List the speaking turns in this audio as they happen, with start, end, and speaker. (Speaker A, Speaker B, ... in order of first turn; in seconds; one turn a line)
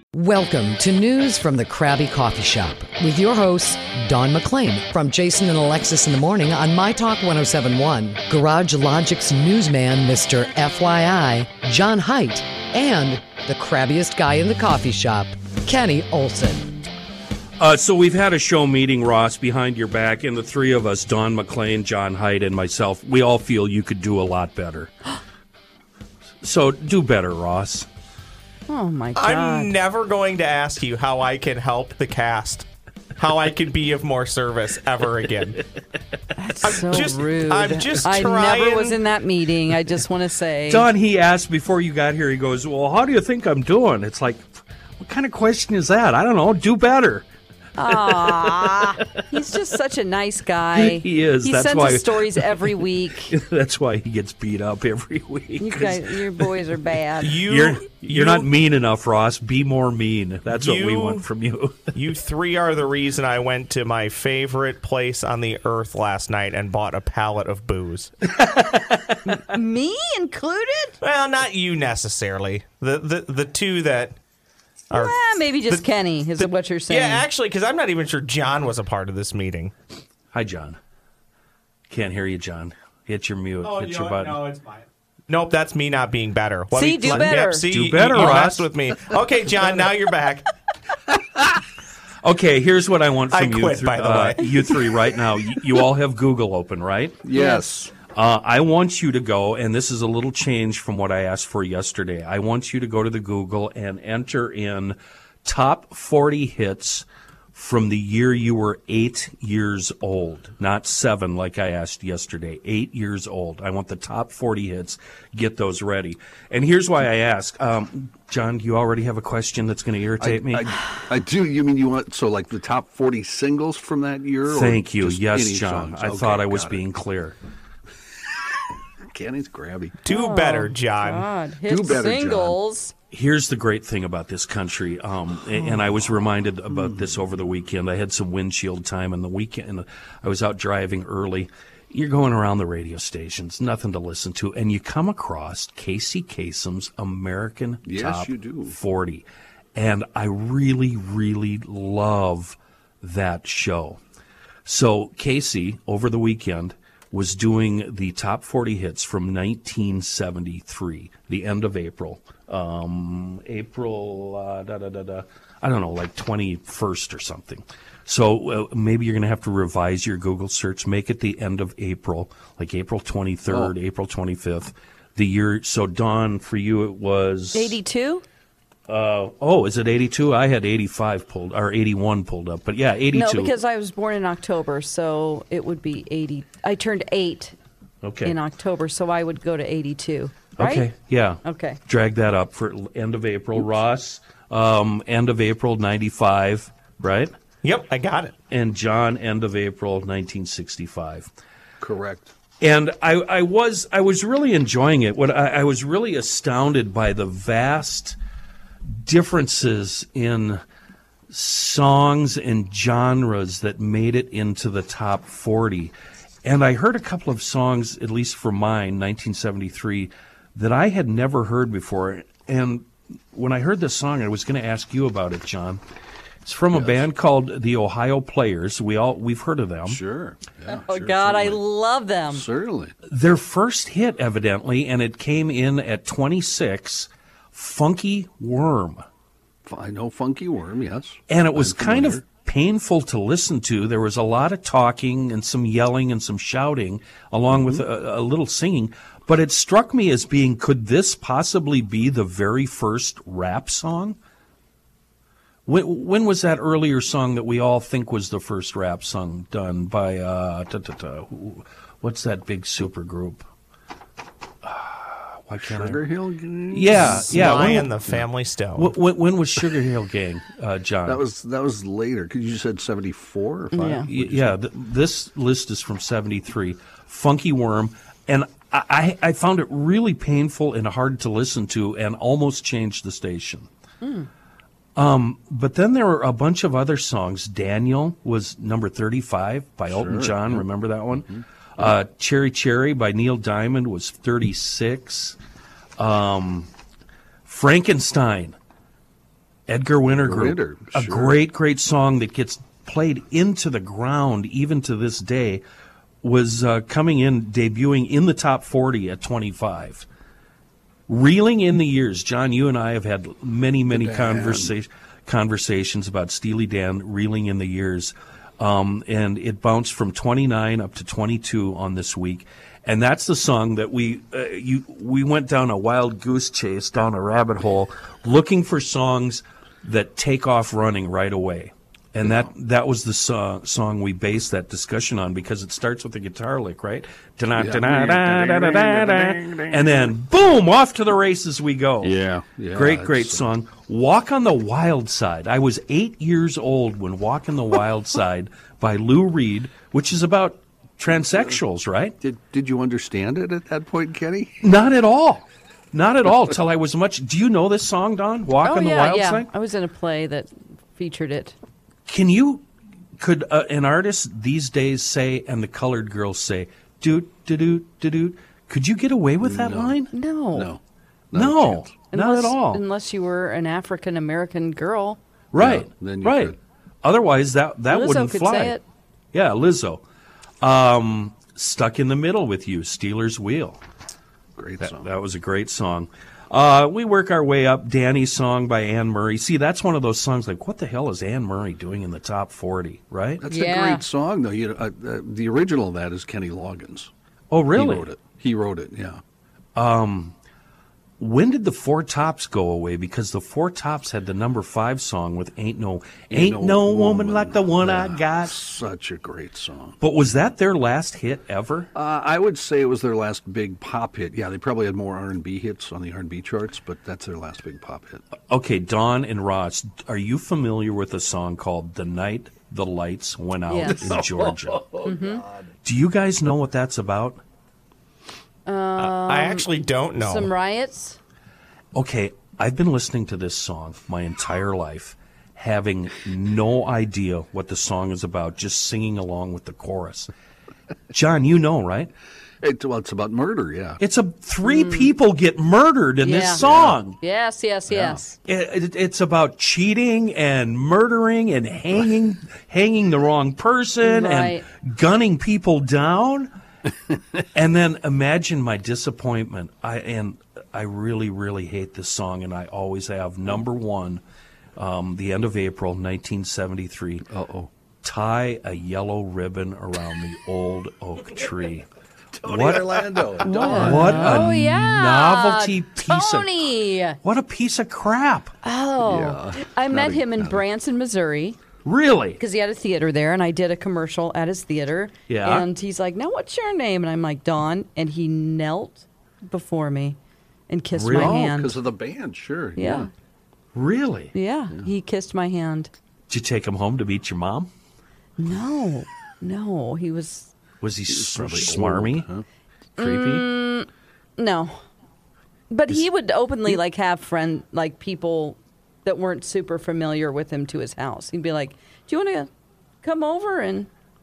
Speaker A: 0.1-16.7
Speaker B: 17.6-24.9
Speaker B: 26.4-27.9
Speaker C: 28.7-29.8
Speaker D: 29.2-35.6
Speaker C: 36.4-40.9
Speaker D: 36.6-39.0
Speaker B: 40.7-47.3
Speaker C: 47.8-53.4
Speaker B: 47.9-49.2
Speaker B: 50.8-56.5
Speaker C: 55.6-57.4
Speaker D: 57.2-58.5
Speaker B: 57.3-62.0
Speaker D: 60.5-61.2
Speaker D: 62.0-68.1
Speaker B: 68.3-69.2
Speaker C: 69.3-71.0
Speaker D: 71.0-74.2
Speaker D: 74.9-75.9
Speaker C: 74.9-77.3
Speaker D: 76.4-79.7
Speaker B: 80.3-80.8
Speaker B: 81.9-84.4
Speaker D: 83.6-90.5
Speaker C: 86.7-87.7
Speaker B: 87.0-88.7
Speaker B: 92.2-97.3
Speaker D: 93.3-95.0
Speaker E: 97.2-97.9
Speaker C: 97.3-97.7
Speaker B: 98.1-120.7
Speaker E: 120.2-126.8
Speaker B: 124.5-127.4
Speaker E: 129.0-130.0
Speaker D: 130.0-131.3
Speaker C: 130.1-132.9
Speaker E: 131.7-132.6
Speaker B: 133.1-154.0
Speaker E: 135.6-136.1
Speaker E: 136.7-137.3
Speaker E: 147.9-148.8
Speaker B: 154.7-177.8
Speaker E: 173.5-173.7
Speaker C: 177.5-178.2
Speaker B: 178.9-183.5
Speaker C: 183.1-187.6
Speaker B: 188.0-188.4
Speaker C: 188.2-190.9
Speaker B: 190.6-197.3
Speaker C: 191.4-191.8
Speaker D: 197.6-198.3
Speaker B: 198.5-201.3
Speaker E: 201.8-202.3
Speaker B: 202.6-208.2
Speaker B: 209.0-210.6
Speaker B: 211.3-215.9
Speaker B: 216.4-225.8
Speaker B: 226.4-230.0
Speaker E: 226.7-227.1
Speaker E: 229.9-231.6
Speaker C: 230.9-232.4
Speaker E: 232.3-232.9
Speaker B: 233.1-239.0
Speaker E: 239.6-242.2
Speaker B: 241.3-254.2
Speaker E: 247.5-247.8
Speaker B: 255.7-263.5
Speaker B: 264.6-266.0
Speaker E: 265.6-267.9
Speaker B: 266.7-268.2
Speaker D: 267.0-268.9
Speaker B: 268.8-271.2
Speaker E: 271.1-274.6
Speaker C: 273.7-274.1
Speaker B: 274.1-283.7
Speaker C: 284.0-284.3
Speaker B: 285.0-295.4
Speaker E: 289.9-290.6
Speaker E: 291.2-291.4
Speaker B: 296.0-296.7
Speaker B: 297.4-298.6
Speaker B: 299.7-305.6
Speaker E: 300.2-301.4
Speaker B: 306.2-310.1
Speaker B: 311.1-342.1
Speaker E: 313.9-314.8
Speaker E: 332.2-332.5
Speaker E: 337.6-340.1
Speaker E: 342.0-343.5
Speaker B: 342.7-352.2
Speaker E: 352.2-354.7
Speaker B: 354.6-359.5
Speaker C: 358.6-361.6
Speaker B: 362.1-362.6
Speaker B: 363.2-370.1
Speaker E: 369.4-370.0
Speaker C: 370.1-370.7
Speaker E: 370.5-370.8
Speaker E: 371.3-371.9
Speaker B: 371.3-372.8
Speaker C: 372.1-375.2
Speaker B: 375.5-378.8
Speaker E: 375.6-376.6
Speaker C: 377.9-378.8
Speaker B: 379.3-380.0
Speaker B: 380.6-383.8
Speaker E: 384.6-385.1
Speaker B: 384.8-393.4
Speaker E: 393.4-397.1
Speaker C: 393.5-394.0
Speaker B: 397.5-398.1
Speaker E: 397.8-399.2
Speaker B: 399.8-400.4
Speaker B: 401.2-408.5
Speaker E: 406.3-410.0
Speaker B: 410.0-411.9
Speaker E: 411.9-418.2
Speaker B: 418.5-424.9
Speaker C: 423.7-424.0
Speaker E: 423.9-425.6
Speaker C: 425.0-425.4
Speaker B: 425.8-427.4
Speaker C: 428.7-431.2
Speaker D: 429.0-430.5
Speaker B: 431.9-440.3
Speaker B: 441.1-442.1
Speaker E: 442.6-444.0
Speaker B: 444.0-447.2
Speaker C: 444.6-445.1
Speaker C: 446.2-446.6
Speaker E: 446.6-447.0
Speaker C: 447.2-448.4
Speaker E: 447.9-448.2
Speaker B: 448.4-456.5
Speaker C: 454.0-454.6
Speaker B: 457.6-464.2
Speaker B: 464.8-467.3
Speaker E: 467.3-467.7
Speaker B: 468.0-471.9
Speaker E: 472.3-474.5
Speaker B: 472.4-476.7
Speaker C: 473.4-477.2
Speaker B: 477.2-478.5
Speaker C: 478.6-481.6
Speaker E: 479.0-480.6
Speaker B: 481.9-482.4
Speaker C: 482.4-490.2
Speaker B: 485.3-485.7
Speaker C: 490.7-491.8
Speaker B: 490.9-491.5
Speaker E: 491.1-493.1
Speaker C: 492.8-493.1
Speaker B: 493.7-494.3
Speaker C: 494.3-495.9
Speaker B: 496.3-497.7
Speaker C: 498.4-500.5
Speaker B: 500.8-502.3
Speaker E: 501.1-502.4
Speaker B: 503.0-503.5
Speaker C: 503.0-504.8
Speaker C: 505.7-512.5
Speaker C: 513.0-513.9